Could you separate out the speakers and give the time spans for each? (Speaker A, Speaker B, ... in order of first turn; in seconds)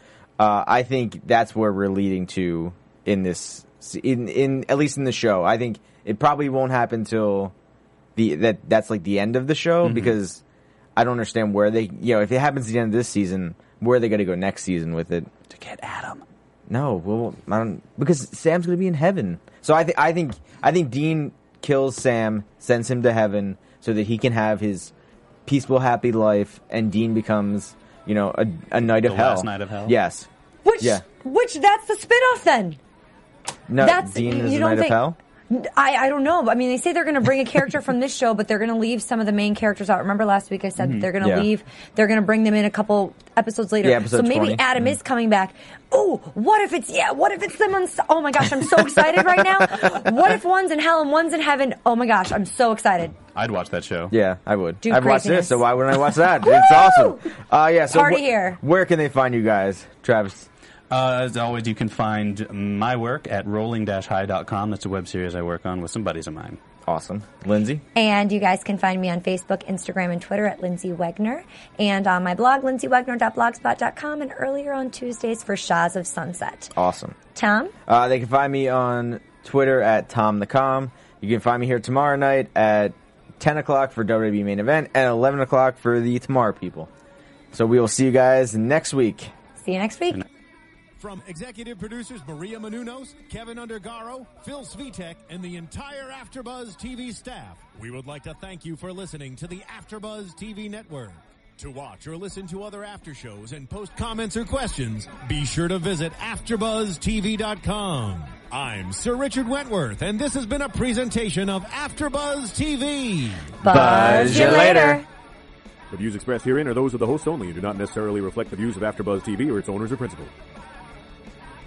Speaker A: 0.4-7.5, 8.2-10.4, 10.9-15.3, 16.7-24.9, 25.4-30.3, 33.7-35.2, 41.2-41.5, 43.8-44.8, 54.1-60.5, 66.8-67.8, 76.7-77.2, 77.8-86.9, 87.5-89.3, 113.6-115.0
Speaker B: 9.8-10.2, 15.5-16.2, 29.0-29.9, 40.8-41.1, 53.3-54.1, 60.9-66.6
Speaker C: 30.6-32.8, 33.8-35.0, 35.5-53.1, 54.8-57.3, 57.9-58.6, 67.9-76.7, 77.3-77.7, 89.6-90.2, 113.6-115.0
Speaker D: 91.0-114.9
Speaker E: 115.9-120.3